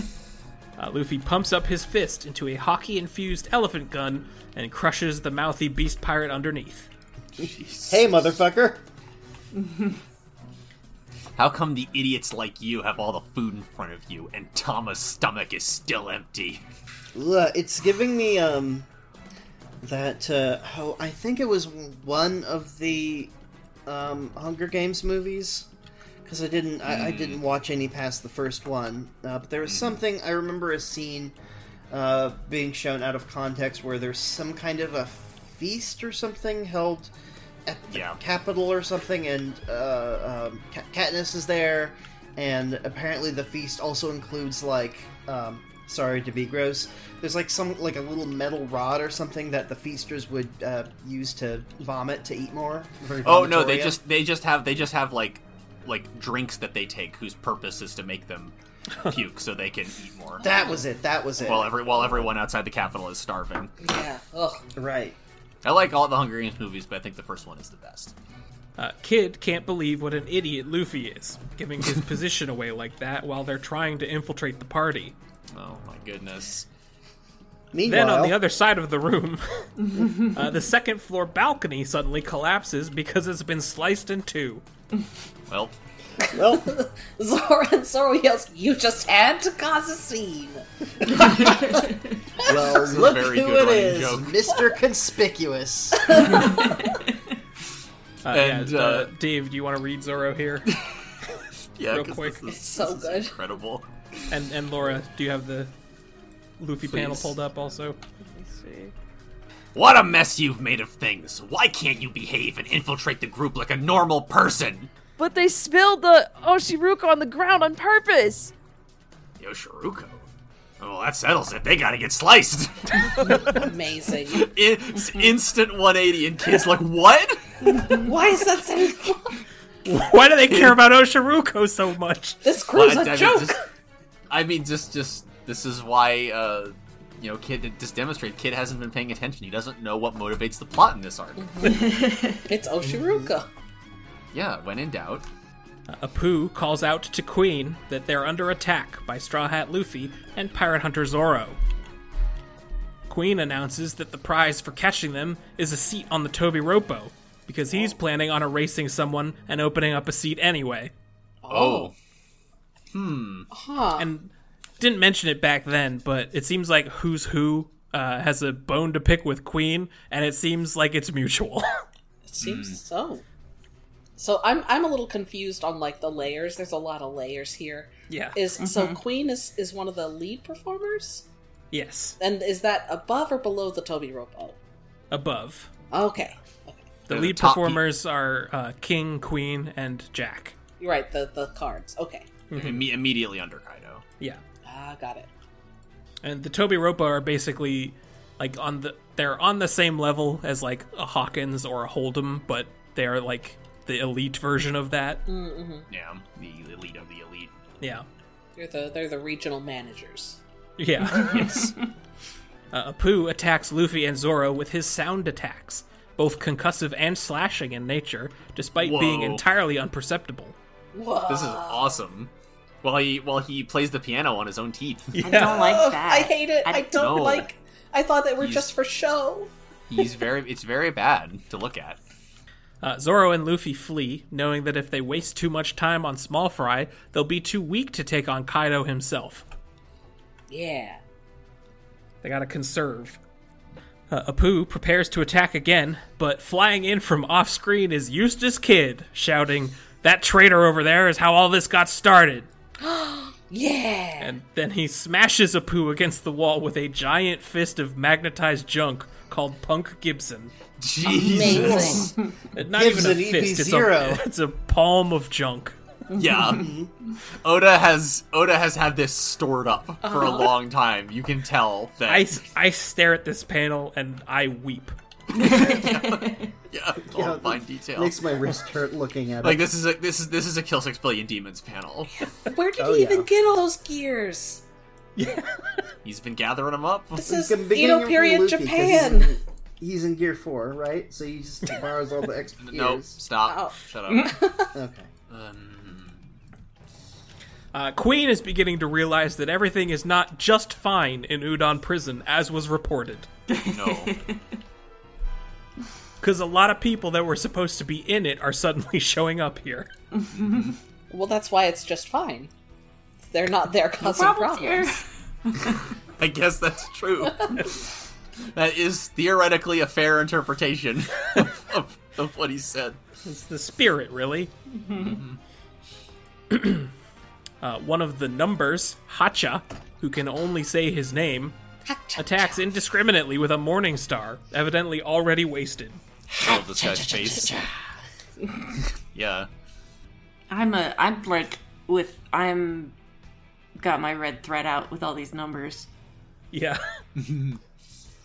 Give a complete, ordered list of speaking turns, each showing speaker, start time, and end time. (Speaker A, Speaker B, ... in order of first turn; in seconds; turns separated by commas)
Speaker A: 0.8-6.9, Speaker B: 7.4-8.1, Speaker C: 7.9-8.8, Speaker D: 9.6-9.9, Speaker B: 11.3-16.6, Speaker C: 17.1-18.9, Speaker C: 19.8-23.3, Speaker C: 23.9-25.7, Speaker C: 26.2-31.3, Speaker B: 26.9-27.4, Speaker B: 29.6-30.0, Speaker C: 31.9-37.1, Speaker C: 37.6-54.0, Speaker B: 37.9-38.2, Speaker B: 53.2-60.5, Speaker C: 60.4-62.3, Speaker E: 60.4-60.8, Speaker B: 61.4-63.7, Speaker E: 63.8-64.6, Speaker C: 64.7-65.2, Speaker B: 65.6-68.1, Speaker A: 68.8-75.1, Speaker B: 75.5-76.7, Speaker C: 77.7-78.4, Speaker A: 77.8-84.6, Speaker B: 85.5-85.8, Speaker C: 86.3-86.8, Speaker E: 86.3-91.9, Speaker D: 91.3-92.1, Speaker C: 92.4-96.5, Speaker B: 92.5-94.4, Speaker E: 96.1-96.8, Speaker A: 98.2-100.7, Speaker B: 98.3-99.1, Speaker B: 100.7-101.0, Speaker B: 101.8-104.2, Speaker A: 101.9-102.5, Speaker E: 102.5-103.3, Speaker A: 104.3-105.7, Speaker A: 106.6-108.0, Speaker B: 106.9-107.3, Speaker F: 108.2-108.9, Speaker B: 109.7-114.9, Speaker F: 115.2-118.5, Speaker B: 119.4-120.2, Speaker B: 120.8-123.6, Speaker E: 123.5-124.5, Speaker B: 124.3-127.4, Speaker E: 127.8-129.4, Speaker A: 129.8-132.4, Speaker B: 130.4-130.8, Speaker E: 132.4-133.6, Speaker B: 132.7-133.6, Speaker B: 134.3-141.9, Speaker E: 141.4-141.9, Speaker D: 141.6-142.4, Speaker E: 142.4-143.5, Speaker C: 142.8-143.3, Speaker B: 144.3-145.3, Speaker A: 145.9-151.6, Speaker A: 153.1-160.9, Speaker E: 161.4-161.9, Speaker B: 161.5-161.9, Speaker B: 162.9-163.5, Speaker E: 163.5-164.1, Speaker A: 164.0-171.7, Speaker E: 172.2-173.2, Speaker B: 172.4-172.8, Speaker E: 174.2-181.2, Speaker A: 178.1-178.4, Speaker D: 178.6-179.0, Speaker A: 181.7-182.2, Speaker E: 182.2-184.6, Speaker A: 185.1-185.7, Speaker E: 185.9-186.9, Speaker B: 187.1-187.8, Speaker A: 187.1-190.6, Speaker E: 190.8-192.3, Speaker A: 192.5-192.9, Speaker B: 192.5-194.0, Speaker E: 194.6-195.3, Speaker A: 196.2-205.2, Speaker E: 205.3-205.9, Speaker B: 205.9-207.5, Speaker E: 208.6-210.4, Speaker A: 210.8-211.7, Speaker B: 211.2-211.7, Speaker A: 212.7-220.5, Speaker B: 218.8-219.4, Speaker E: 220.9-222.0, Speaker B: 221.3-222.3, Speaker B: 222.8-225.3, Speaker A: 225.1-225.6, Speaker D: 225.2-227.0, Speaker E: 225.3-229.5, Speaker B: 226.9-227.5, Speaker B: 228.4-228.7, Speaker B: 229.9-232.0, Speaker A: 232.8-239.4, Speaker E: 240.5-241.0, Speaker A: 242.2-243.2, Speaker A: 244.1-252.5, Speaker E: 252.8-254.3, Speaker A: 254.2-260.5, Speaker B: 260.8-262.1, Speaker E: 261.0-262.1, Speaker C: 261.4-262.1, Speaker A: 262.5-265.8, Speaker C: 262.7-264.2, Speaker D: 266.1-266.6, Speaker B: 266.1-266.7, Speaker C: 266.5-266.9, Speaker B: 267.4-272.3, Speaker E: 270.0-270.6, Speaker A: 272.1-274.9, Speaker D: 275.3-276.5, Speaker B: 275.3-278.2, Speaker C: 277.1-279.7, Speaker B: 279.4-282.1, Speaker E: 282.3-284.6, Speaker C: 282.8-283.3, Speaker A: 285.2-285.6, Speaker B: 286.0-287.3, Speaker E: 287.1-289.4, Speaker C: 287.2-293.2, Speaker B: 292.6-294.4, Speaker E: 293.4-294.7, Speaker C: 294.7-295.1, Speaker B: 295.3-296.2, Speaker A: 297.7-303.3, Speaker D: 303.5-304.4, Speaker B: 303.6-304.2, Speaker A: 306.2-309.9, Speaker D: 310.1-310.7, Speaker B: 310.4-310.7, Speaker E: 311.1-312.5, Speaker E: 313.3-315.0, Speaker D: 314.0-315.9, Speaker B: 315.7-317.9, Speaker B: 318.5-323.0, Speaker A: 323.2-324.5, Speaker D: 324.9-325.1, Speaker B: 324.9-325.4, Speaker A: 326.5-326.9, Speaker A: 327.6-331.5, Speaker E: 331.9-332.6, Speaker A: 332.2-336.0, Speaker B: 336.4-337.6, Speaker E: 337.2-337.5, Speaker B: 338.8-339.5, Speaker D: 340.5-342.9, Speaker D: 343.8-345.9, Speaker A: 346.5-346.8, Speaker B: 347.2-347.6